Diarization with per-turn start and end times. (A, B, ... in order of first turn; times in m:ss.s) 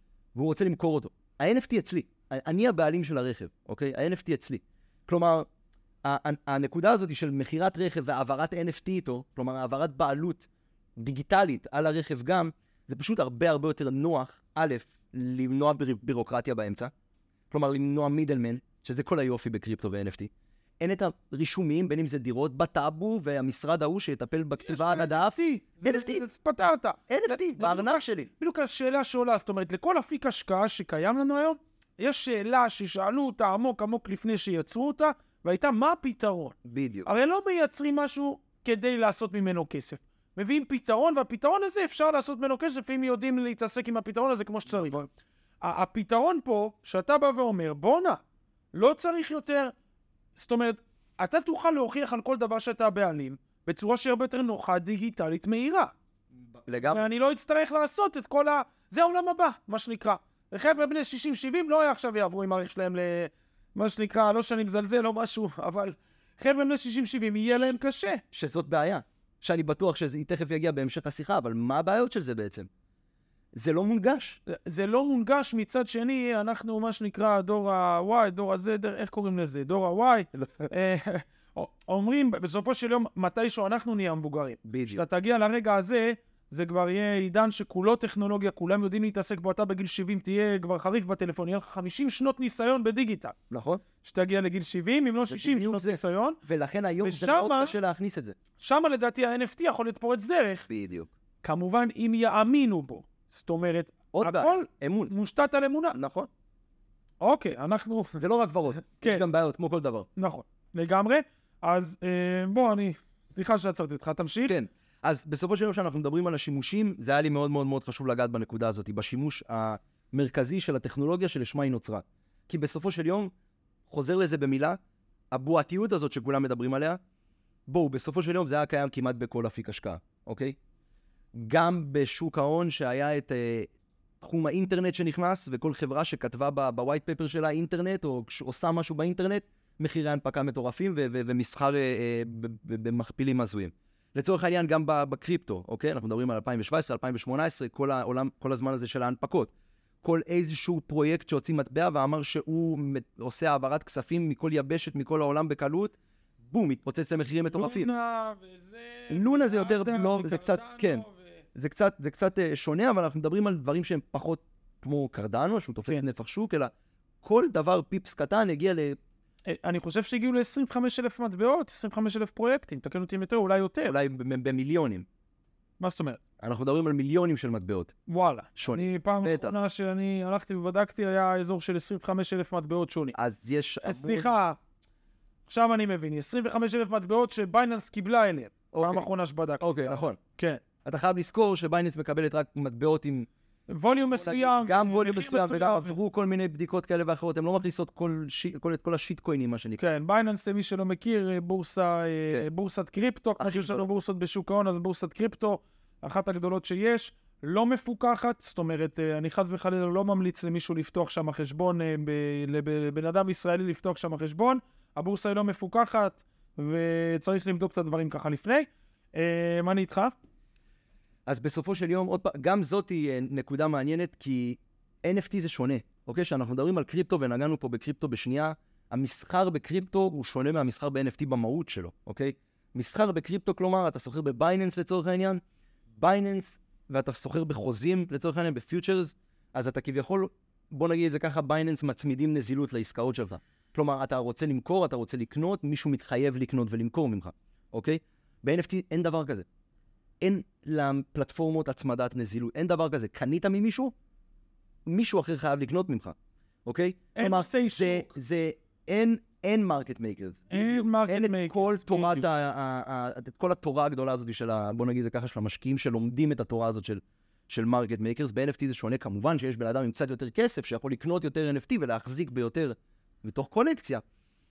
0:00.3-0:05.5 A
0:06.0-0:16.9 A
0:17.5-0:26.2 A
0:24.6-0:36.5 B
0:27.1-0:28.3 A
0:36.6-0:37.1 A
0:37.0-0:45.0 B
0:44.8-0:45.1 A
0:45.6-0:48.2 B
0:48.7-0:49.7 B
0:50.4-0:55.9 B
0:56.6-0:57.1 A
0:56.9-1:08.2 B
1:08.3-1:12.7 A
1:13.5-1:14.4 A
1:14.5-1:33.3 B
1:20.3-1:20.7 A
1:24.6-1:25.0 A
1:33.5-1:33.8 A
1:34.0-1:36.4 B
1:35.3-1:38.3 A
1:37.0-1:37.7 B
1:38.6-1:40.6 B
1:40.7-1:41.1 A
1:41.4-1:46.0 B
1:44.1-1:45.1 A
1:45.9-1:46.3 A
1:47.2-1:48.2 B
1:48.2-1:50.1 A
1:49.0-1:49.2 B
1:50.2-1:54.5 B
1:54.5-2:03.3 A
2:03.9-2:04.8 A
2:05.3-2:07.0 A
2:07.7-2:10.6 A
2:11.3-2:29.5 A
2:30.0-2:37.9 A
2:37.5-2:41.4 B
2:39.1-2:46.7 A
2:47.2-2:49.0 A
2:49.4-2:54.0 B
2:53.9-2:55.0 A
2:55.8-2:56.2 B
2:56.4-2:57.9 A
2:58.1-3:03.2 B
2:58.6-2:59.5 A
3:03.1-3:04.3 A
3:03.8-3:04.6 B
3:05.5-3:10.6 B
3:08.7-3:09.0 A
3:09.6-3:10.2 A
3:10.8-3:13.3 A
3:13.7-3:15.9 B
3:14.2-3:19.8 A
3:19.8-3:40.1 B
3:23.4-3:23.8 A
3:41.2-3:55.4 A
3:56.0-4:09.4 A
4:10.2-4:13.9 A
4:14.8-4:34.0 A
4:17.1-4:18.1 B
4:20.5-4:22.2 B